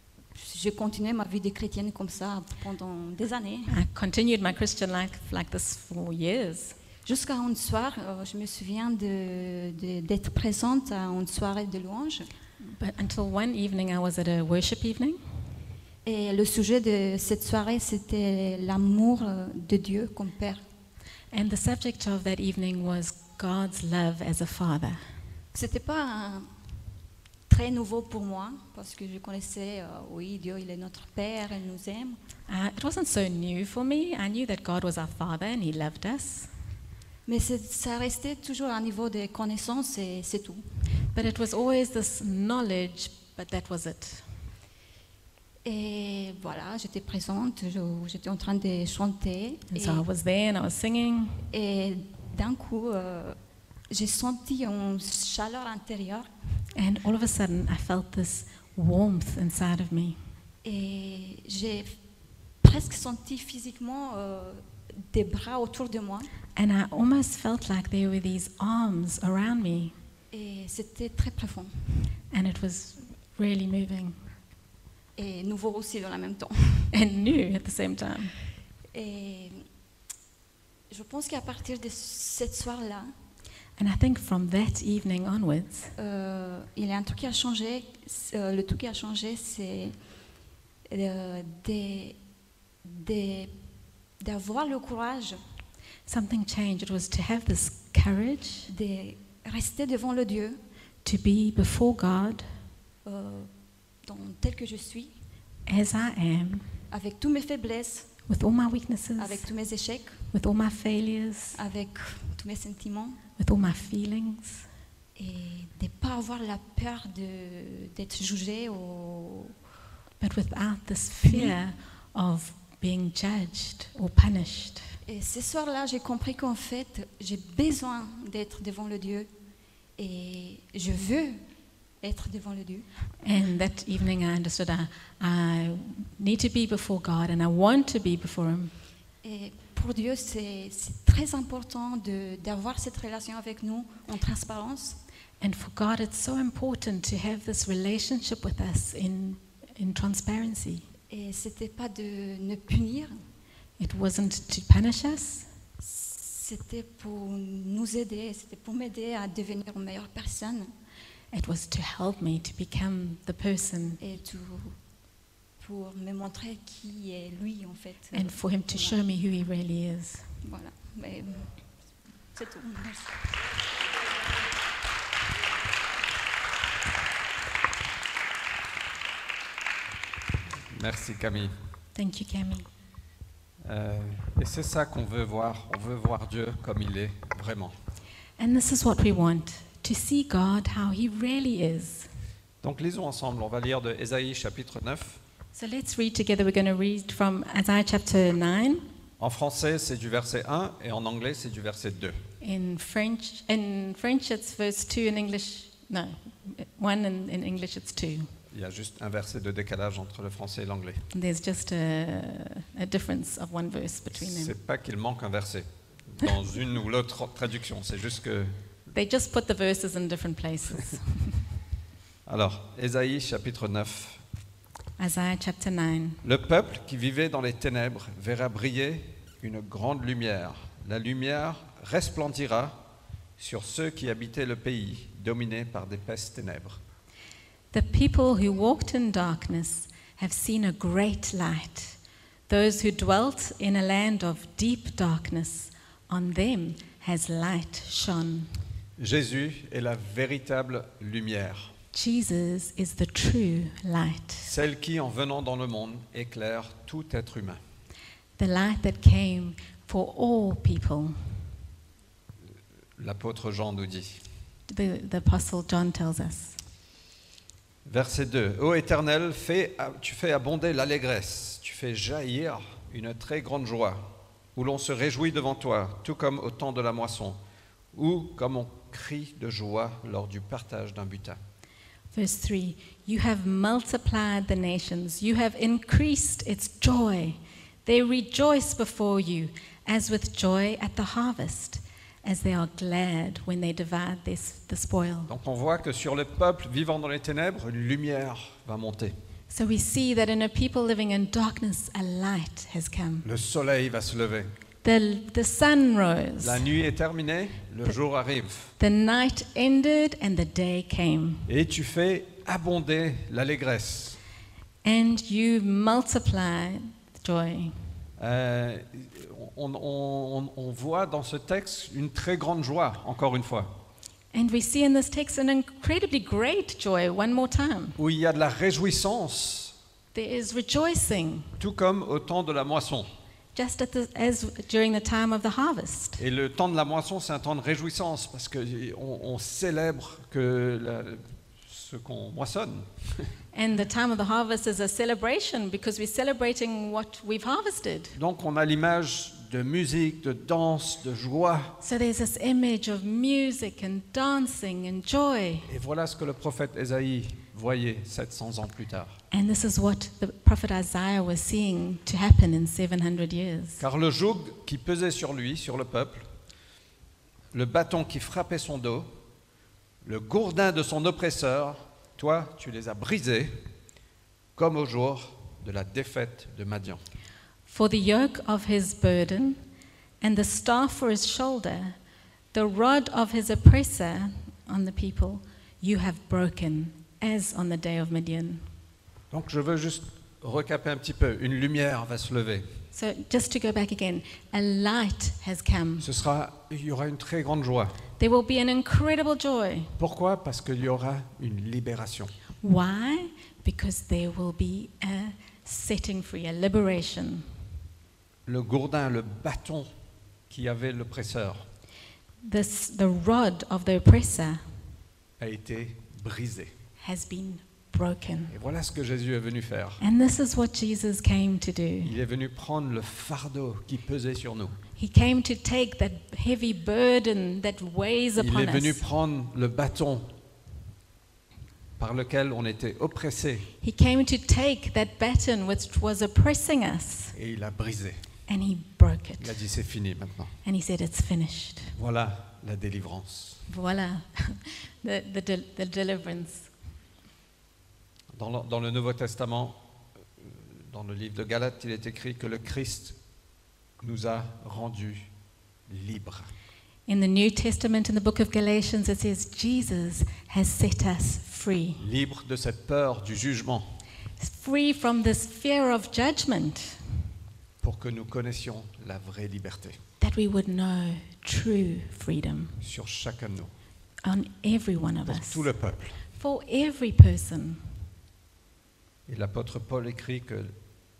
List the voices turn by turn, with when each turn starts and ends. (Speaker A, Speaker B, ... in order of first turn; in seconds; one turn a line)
Speaker A: 0.3-3.8
Speaker B: 3.7-6.8
Speaker A: 7.0-12.3
Speaker B: 12.6-15.2
Speaker A: 16.0-20.6
Speaker B: 21.3-25.0
Speaker A: 25.5-26.5
Speaker A: 27.5-32.2
Speaker B: 32.5-36.5
Speaker A: 37.2-40.6
Speaker B: 41.1-44.3
Speaker A: 45.6-50.0
Speaker B: 49.7-51.5
Speaker A: 51.5-53.4
Speaker A: 53.9-56.3
Speaker B: 56.7-60.2
Speaker A: 60.6-62.0
Speaker A: 62.6-66.3
Speaker B: 66.5-69.9
Speaker A: 70.3-72.0
Speaker B: 72.3-74.2
Speaker A: 75.2-76.9
Speaker B: 76.9-78.4
Speaker A: 78.9-79.6
Speaker A: 80.9-83.1
Speaker B: 83.8-85.9
Speaker A: 86.0-90.0
Speaker A: 90.9-92.2
Speaker A: 92.8-93.5
Speaker A: 94.2-95.4
Speaker B: 96.1-98.7
Speaker A: 98.7-100.6
Speaker B: 101.0-102.5
Speaker A: 103.0-103.5
Speaker A: 104.0-105.1
Speaker B: 105.7-106.7
Speaker A: 106.9-108.1
Speaker B: 108.3-109.5
Speaker A: 109.2-110.3
Speaker B: 110.3-111.6
Speaker A: 111.5-113.2
Speaker B: 113.4-114.7
Speaker A: 115.2-119.6
Speaker B: 120.2-124.9
Speaker A: 121.2-121.6
Speaker A: 125.0-129.3
Speaker A: 130.0-131.4
Speaker A: 132.0-132.9
Speaker B: 133.2-138.7
Speaker A: 139.2-145.0
Speaker B: 145.4-150.8
Speaker A: 151.1-153.2
Speaker B: 153.8-155.5
Speaker A: 155.8-160.7
Speaker B: 161.3-164.0
Speaker A: 164.0-164.8
Speaker A: 165.6-169.0
Speaker B: 168.1-170.3
Speaker A: 170.4-171.5
Speaker A: 172.3-173.2
Speaker C: 180.7-181.5
Speaker B: 181.9-182.7
Speaker C: 183.6-187.7
Speaker B: 188.4-192.1
Speaker C: 192.6-195.2
Speaker B: 195.5-198.8
Speaker C: 199.2-202.2
Speaker B: 202.4-208.3
Speaker C: 208.5-211.1
Speaker B: 211.1-214.5
Speaker C: 214.1-218.6
Speaker B: 218.9-221.4
Speaker C: 222.2-224.2
Speaker B: 225.0-226.2
Speaker C: 226.2-232.8
Speaker C: 233.4-236.8
Speaker B: 237.7-242.0
Speaker B: 242.5-248.5
Speaker C: 249.0-251.7
Speaker B: 251.9-254.5
Speaker C: 254.4-257.6
Speaker B: 258.4-261.4
Speaker C: 263.0-264.2
Speaker B: 264.7-266.6
Speaker C: 267.9-277.4
Speaker C: 277.9-281.4
Speaker B: 282.1-295.3
Speaker C: 295.3-299.1
Speaker B: 299.5-303.2
Speaker C: 303.2-304.5
Speaker B: 304.8-306.7
Speaker C: 306.4-308.7
Speaker B: 308.8-311.5
Speaker C: 311.5-314.2
Speaker B: 314.8-317.9
Speaker C: 318.2-323.7
Speaker B: 324.3-328.0
Speaker C: 328.0-329.7
Speaker B: 330.1-331.6
Speaker C: 331.6-333.1
Speaker B: 333.5-336.2
Speaker C: 336.2-343.3
Speaker B: 343.5-348.1
Speaker C: 348.1-351.8
Speaker B: 351.8-355.7
Speaker C: 355.7-359.2
Speaker B: 359.3-363.8
Speaker C: 363.8-366.3
Speaker C: 367.5-369.1
Speaker C: 370.0-373.6
Speaker C: 374.6-377.0
Speaker B: 377.7-379.6
Speaker B: 380.2-381.9
Speaker B: 382.5-388.7
Speaker C: 389.3-392.7
Speaker B: 392.9-396.1
Speaker C: 396.0-398.0
Speaker B: 398.2-399.9
Speaker C: 400.0-402.3
Speaker B: 402.6-407.5
Speaker C: 408.4-409.9
Speaker C: 410.5-411.7
Speaker B: 412.4-414.6
Speaker C: 415.4-416.7
Speaker B: 417.0-418.5
Speaker C: 418.5-420.0
Speaker B: 420.0-422.1
Speaker C: 422.0-424.8
Speaker B: 424.9-429.0
Speaker C: 428.4-430.3
Speaker C: 432.0-433.7
Speaker B: 433.8-437.3
Speaker C: 437.3-438.2
Speaker B: 438.5-439.6
Speaker C: 439.4-440.5
Speaker B: 440.6-441.9
Speaker C: 441.9-443.6
Speaker B: 443.7-446.7
Speaker C: 448.3-449.8
Speaker C: 450.4-453.2
Speaker C: 454.0-455.3
Speaker C: 455.9-456.5
Speaker B: 457.1-462.0
Speaker C: 462.0-464.0
Speaker B: 464.4-467.0
Speaker C: 467.8-470.0
Speaker B: 470.2-472.8
Speaker C: 472.8-473.7
Speaker B: 474.2-475.7
Speaker C: 475.2-476.2
Speaker B: 476.3-477.9
Speaker C: 479.3-480.7